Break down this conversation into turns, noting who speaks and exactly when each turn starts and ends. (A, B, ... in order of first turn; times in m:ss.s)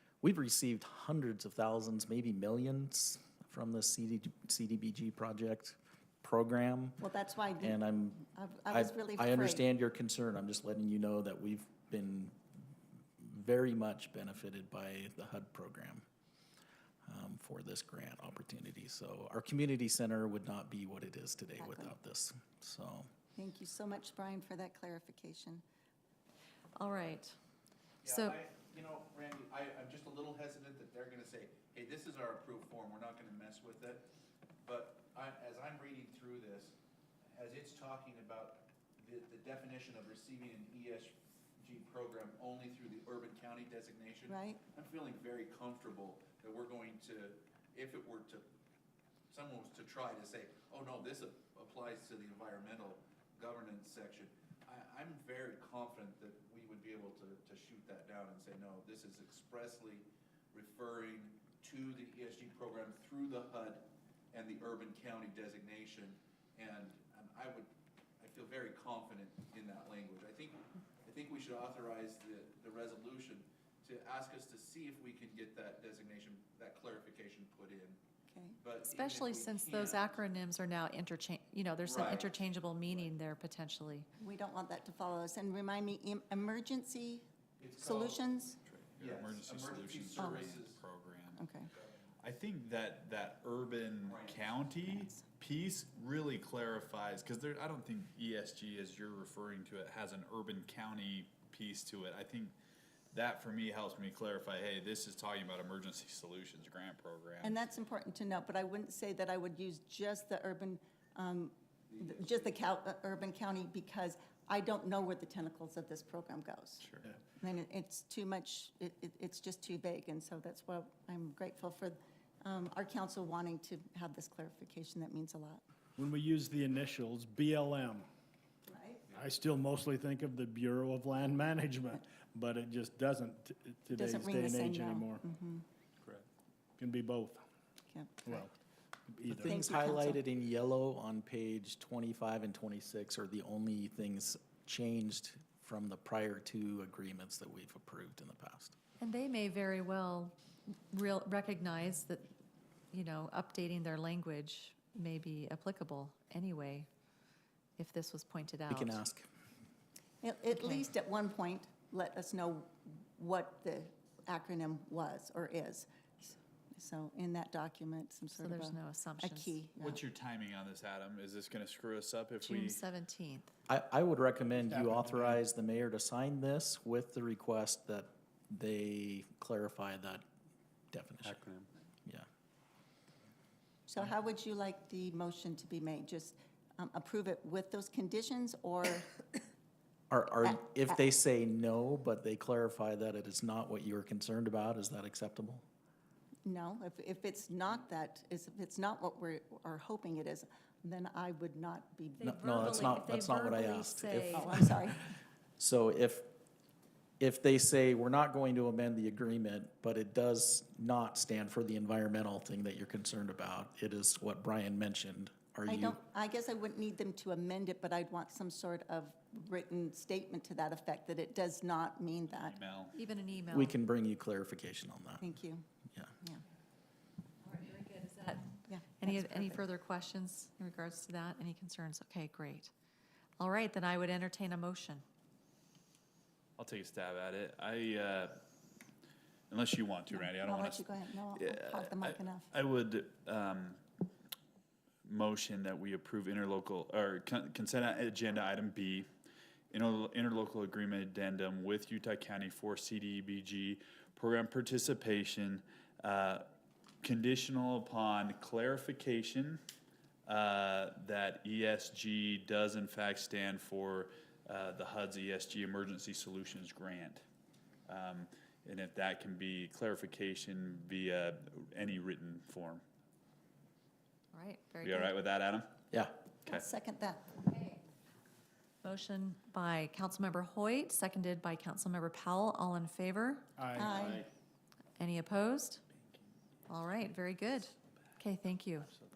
0:00.2-0:07.0 A
0:07.0-0:09.7 B
0:07.6-0:12.4 A
0:13.2-0:16.0 A
0:17.1-0:23.1 A
0:21.6-0:21.9 B
0:23.4-0:25.6 B
0:26.8-0:27.4 C
0:28.0-0:28.4 C
0:28.0-0:34.1 D
0:34.6-0:36.8 D
0:37.3-0:48.5 D
0:44.3-0:44.6 B
0:49.3-1:18.0 D
1:18.3-1:18.6 B
1:18.6-1:20.3 D
1:18.8-1:24.1 C
1:21.8-1:23.1 D
1:24.2-1:27.2 B
1:27.6-1:28.3 D
1:27.8-1:28.6 B
1:28.6-1:31.5 E
1:29.0-1:30.9 D
1:31.4-1:31.7 B
1:31.7-1:32.1 D
1:32.2-1:42.6 E
1:34.0-1:34.6 D
1:43.1-1:47.6 E
1:47.4-2:05.6 B
1:51.9-1:52.6 D
2:06.0-2:08.1 F
2:08.7-2:09.1 B
2:09.1-2:15.2 F
2:13.9-2:15.6 B
2:16.8-2:17.4 F
2:17.9-2:18.4 B
2:18.2-2:18.5 F
2:19.1-2:19.6 F
2:19.2-2:28.8 A
2:19.4-2:20.2 B
2:29.0-2:30.4 C
2:30.9-2:32.3 C
2:32.9-2:36.9 C
2:37.8-2:39.0 C
2:38.7-2:39.3 A
2:40.2-2:50.0 B
2:40.5-2:40.8 C
2:48.4-2:49.6 C
2:49.8-2:52.8 E
2:52.4-2:53.5 C
2:53.7-3:00.2 A
2:54.6-2:55.4 F
3:00.9-3:01.4 A
3:01.2-3:01.7 E
3:03.9-3:09.1 B
3:10.1-3:15.6 A
3:10.4-3:11.0 B
3:16.4-3:23.0 B
3:22.2-3:24.5 C
3:22.2-3:24.8 A
3:24.4-3:25.0 B
3:25.6-3:26.3 A
3:27.2-3:36.0 A
3:35.7-3:42.6 B
3:42.3-3:43.0 E
3:43.0-3:43.8 C
3:43.5-3:45.3 A
3:45.2-3:45.6 B
3:47.4-3:52.7 C
3:48.7-3:49.6 B
3:53.4-3:55.0 C
3:56.6-3:58.4 E
3:59.5-4:03.8 E
4:00.1-4:02.5 B
4:05.1-4:09.1 E
4:09.7-4:16.4 E
4:17.0-4:19.6 E
4:20.3-4:27.2 E
4:27.9-4:32.8 E
4:34.3-4:35.1 C
4:34.8-4:35.8 E
4:36.5-4:37.4 B
4:37.4-4:37.8 C
4:38.8-4:43.5 C
4:43.6-4:44.3 F
4:43.8-4:44.2 B
4:45.0-4:45.8 C
4:46.7-4:48.9 C